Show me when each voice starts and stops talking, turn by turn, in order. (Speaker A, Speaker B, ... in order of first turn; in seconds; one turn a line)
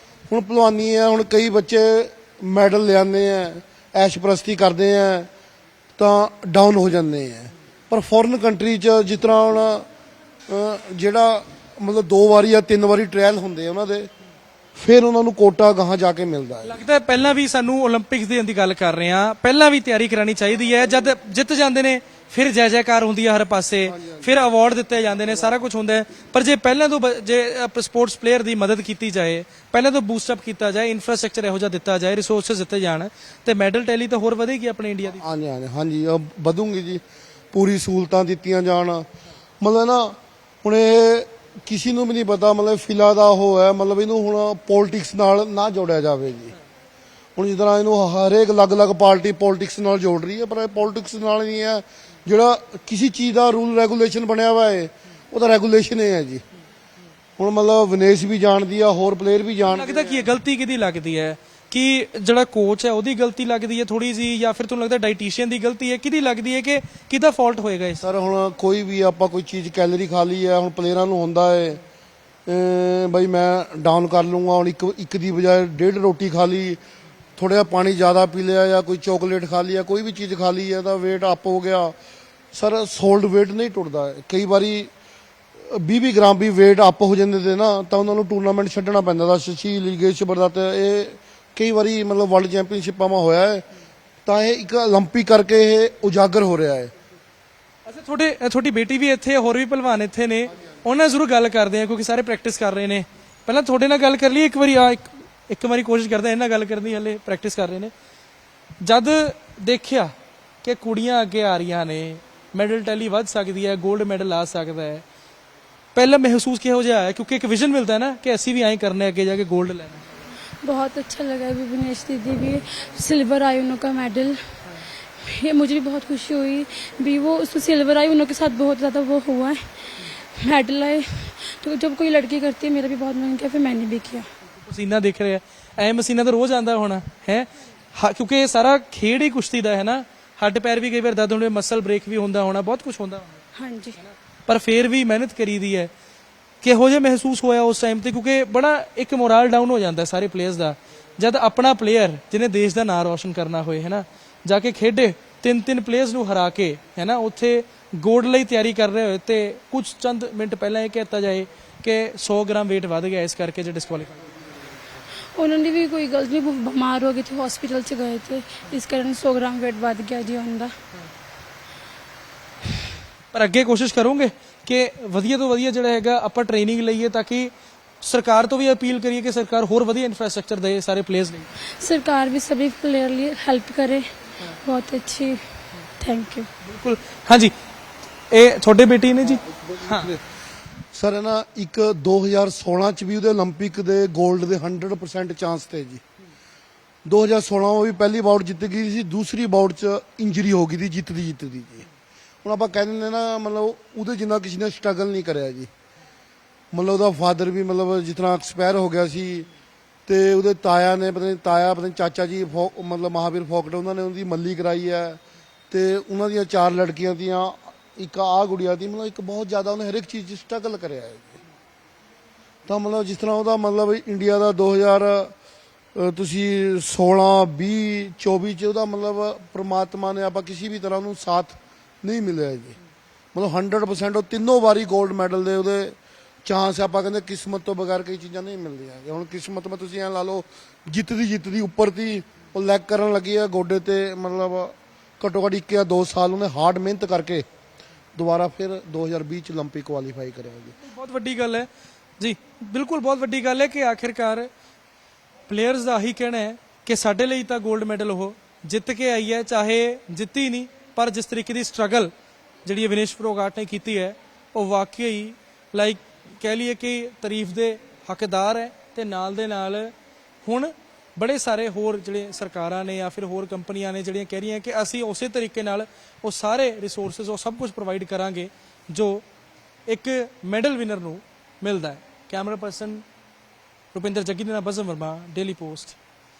Speaker A: 0.3-5.3
Speaker A: 6.0-9.8
Speaker A: 10.5-14.1
Speaker A: 14.7-16.8
Speaker B: 16.6-35.2
Speaker A: 23.9-24.4
Speaker A: 35.1-39.0
Speaker A: 39.6-46.5
Speaker A: 47.4-56.4
Speaker A: 57.4-60.3
Speaker B: 59.7-68.0
Speaker A: 68.0-71.8
Speaker A: 72.5-76.8
Speaker A: 77.4-81.9
Speaker A: 82.5-84.9
Speaker A: 85.7-93.6
Speaker A: 94.2-96.9
Speaker B: 97.8-107.9
Speaker B: 108.8-110.1
Speaker B: 110.6-115.0
Speaker B: 115.9-120.0
Speaker C: 120.6-124.4
Speaker C: 125.2-129.6
Speaker C: 130.3-134.2
Speaker B: 134.6-143.4
Speaker C: 143.5-144.0
Speaker B: 144.0-145.9
Speaker B: 146.6-164.2
Speaker C: 165.3-170.7
Speaker B: 173.3-181.5
Speaker C: 181.8-184.1
Speaker C: 184.6-185.4
Speaker C: 186.0-186.5
Speaker B: 186.6-187.5
Speaker B: 188.3-190.1
Speaker A: 189.3-190.2
Speaker A: 190.9-196.0
Speaker A: 197.1-201.9
Speaker A: 202.4-205.7
Speaker A: 206.7-209.5
Speaker A: 210.1-221.4
Speaker A: 222.7-225.3
Speaker A: 225.9-232.8
Speaker A: 233.3-247.4
Speaker A: 248.2-250.7
Speaker B: 250.8-251.7
Speaker B: 252.2-254.5
Speaker B: 255.5-262.1
Speaker B: 262.6-269.9
Speaker B: 270.4-279.2
Speaker B: 279.9-283.0
Speaker B: 283.9-286.0